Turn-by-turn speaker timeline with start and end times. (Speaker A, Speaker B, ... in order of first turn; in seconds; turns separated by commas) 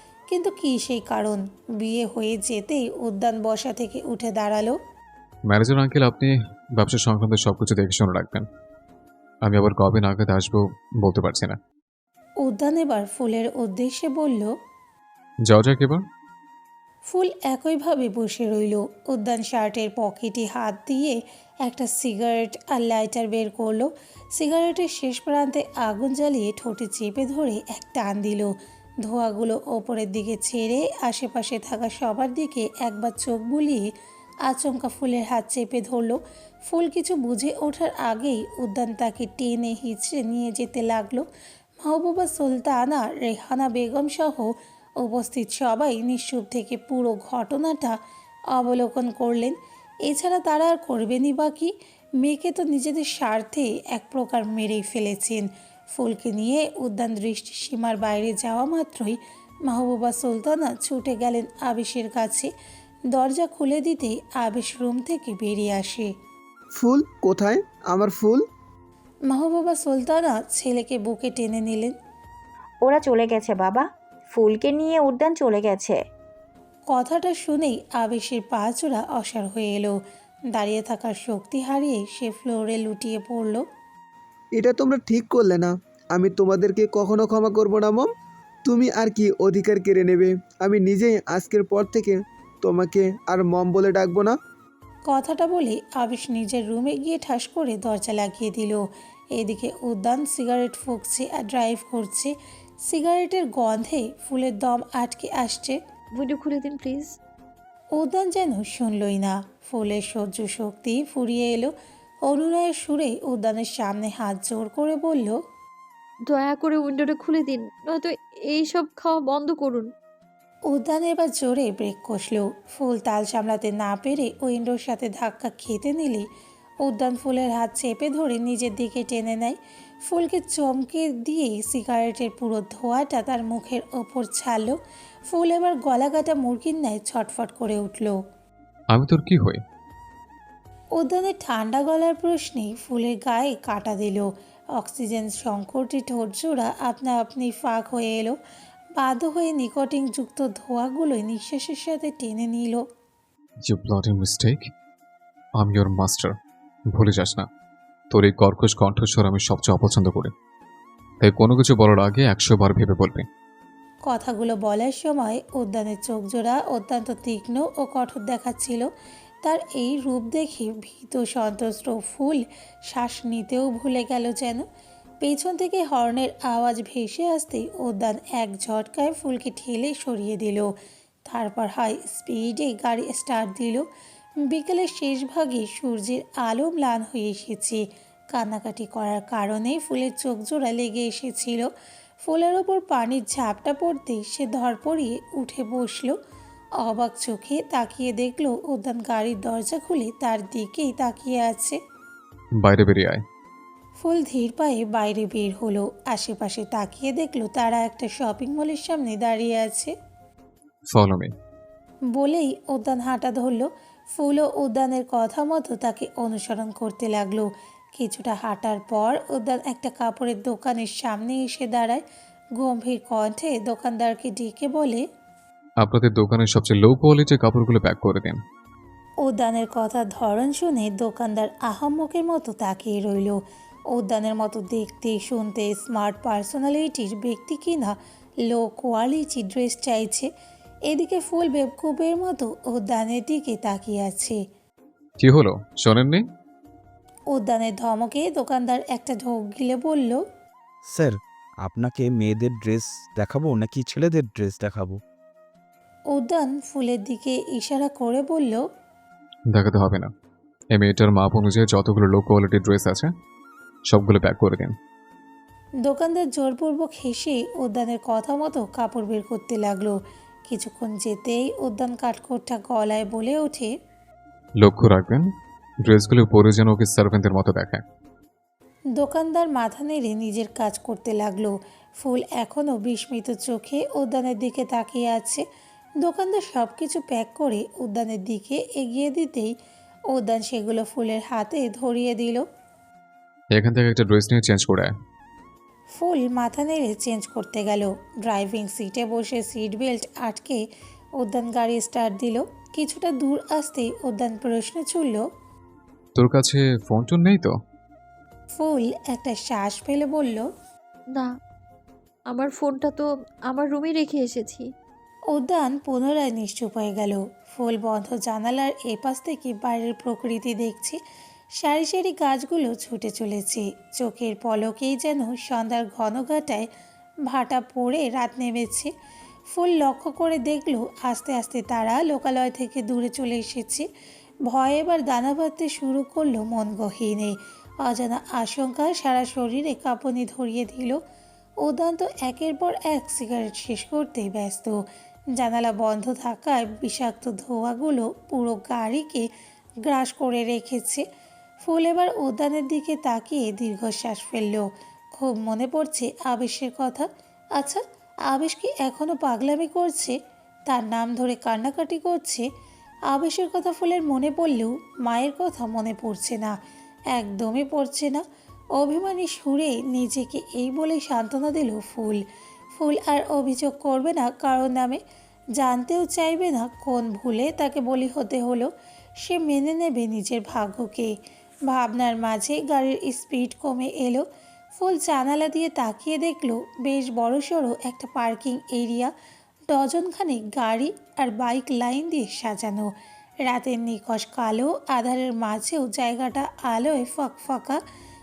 Speaker A: 0.3-4.8, Speaker B: 5.5-8.5, Speaker B: 9.4-11.6, Speaker A: 12.4-14.5, Speaker B: 15.5-16.0, Speaker A: 17.1-28.5, Speaker A: 29.1-33.9, Speaker A: 34.5-41.2, Speaker A: 41.8-48.0, Speaker A: 48.5-62.5, Speaker A: 63.1-66.1, Speaker C: 66.8-68.4, Speaker A: 69.3-72.0, Speaker D: 72.8-76.0, Speaker A: 76.9-80.0, Speaker A: 80.5-83.6, Speaker C: 84.6-88.1, Speaker C: 88.7-94.4, Speaker A: 95.1-98.8, Speaker A: 99.4-102.3, Speaker A: 102.9-105.8, Speaker E: 106.2-107.2, Speaker A: 108.0-111.7, Speaker A: 112.3-115.4, Speaker E: 116.3-119.9, Speaker A: 120.7-126.3, Speaker A: 126.8-134.8, Speaker A: 135.3-138.2, Speaker B: 138.9-139.6, Speaker A: 141.0-148.4, Speaker A: 149.0-152.8, Speaker B: 153.6-154.7, Speaker B: 155.6-156.4, Speaker B: 156.9-157.5, Speaker B: 158.1-160.3, Speaker B: 161.2-163.3, Speaker A: 164.1-168.9, Speaker A: 169.4-174.7, Speaker A: 175.2-180.7, Speaker A: 181.3-183.8, Speaker A: 184.4-191.7, Speaker A: 192.2-196.2, Speaker A: 196.8-201.8, Speaker B: 202.6-203.2, Speaker A: 204.0-209.9, Speaker B: 210.9-211.3, Speaker A: 212.1-222.0, Speaker A: 222.6-225.0, Speaker B: 225.8-228.4, Speaker A: 229.2-233.4, Speaker A: 233.9-237.9, Speaker A: 238.5-240.3, Speaker A: 240.9-244.4, Speaker B: 245.2-246.2, Speaker A: 247.3-250.2, Speaker F: 250.8-255.0, Speaker A: 256.1-258.6, Speaker B: 259.5-260.1, Speaker B: 260.7-263.1, Speaker B: 263.9-264.8, Speaker A: 265.8-273.7, Speaker B: 274.6-275.3, Speaker B: 275.9-277.8, Speaker A: 279.0-285.4, Speaker A: 286.0-289.5, Speaker A: 290.1-292.4, Speaker B: 293.5-294.9, Speaker A: 296.0-300.6, Speaker A: 301.2-305.2, Speaker B: 306.2-307.6, Speaker A: 308.6-310.5, Speaker E: 312.3-314.7, Speaker A: 315.3-321.0, Speaker A: 321.6-326.7, Speaker A: 327.3-328.9, Speaker A: 329.5-333.9, Speaker A: 334.5-341.0, Speaker A: 341.6-344.8, Speaker A: 345.4-349.3, Speaker A: 349.9-351.1, Speaker A: 351.6-360.2, Speaker A: 360.7-362.5, Speaker A: 363.1-366.6, Speaker A: 367.1-368.2, Speaker A: 368.8-372.2, Speaker A: 372.8-375.0, Speaker A: 375.6-378.7, Speaker A: 379.2-381.1, Speaker A: 381.7-384.2, Speaker A: 384.8-389.1, Speaker A: 389.7-392.9, Speaker A: 393.4-397.8